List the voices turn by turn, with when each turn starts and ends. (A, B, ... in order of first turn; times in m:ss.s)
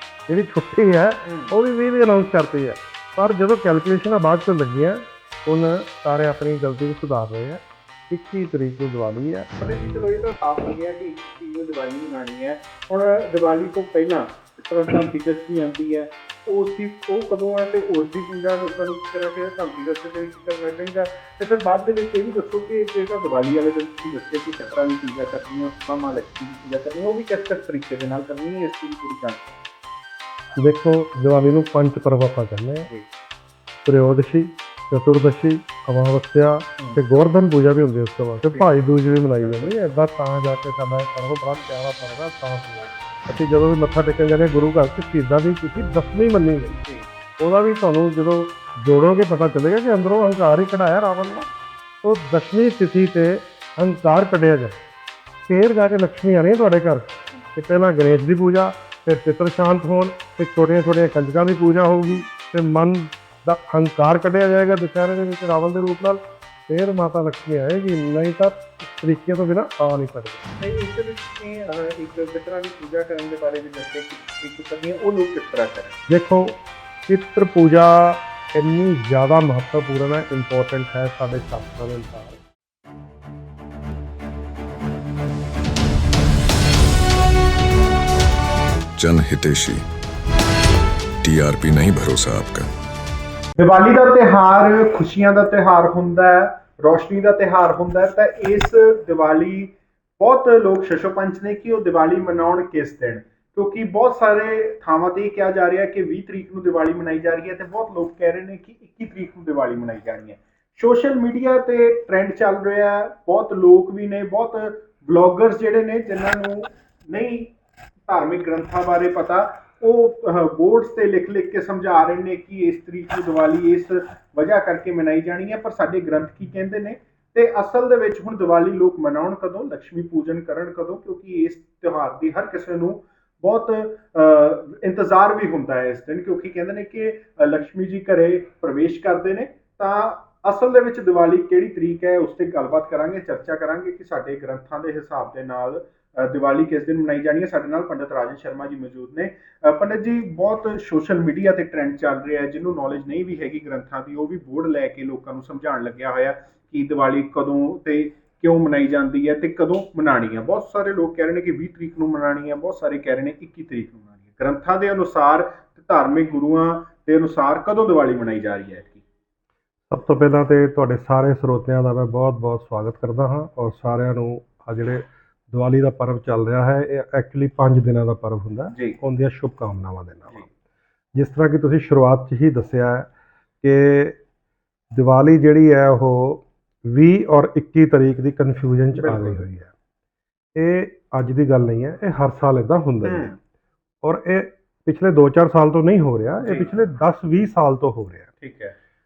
0:00.3-0:09.5 A
0:01.2-0:01.5 B
0:09.6-0:29.6 B
0:30.6-0:32.9 A
0:33.8-0:46.8 A
0:38.5-0:38.8 B
0:39.4-0:39.7 B
0:47.4-0:51.5 A
0:52.0-0:54.8 A
0:55.5-1:10.4 A
1:10.6-1:16.0 B
1:16.1-1:22.4 A
1:29.0-1:29.8 C
1:31.2-1:32.7 C
1:33.6-1:57.5 B
1:58.1-2:49.0 B
2:49.9-3:00.4 A
2:58.7-2:59.0 B
3:01.1-3:03.1 A
3:03.6-3:04.2 A
3:04.9-3:09.7 A
3:09.0-3:09.4 B
3:10.6-3:13.3 A
3:13.0-3:13.4 B
3:14.0-3:18.3 A
3:16.4-3:16.7 B
3:18.4-3:18.7 B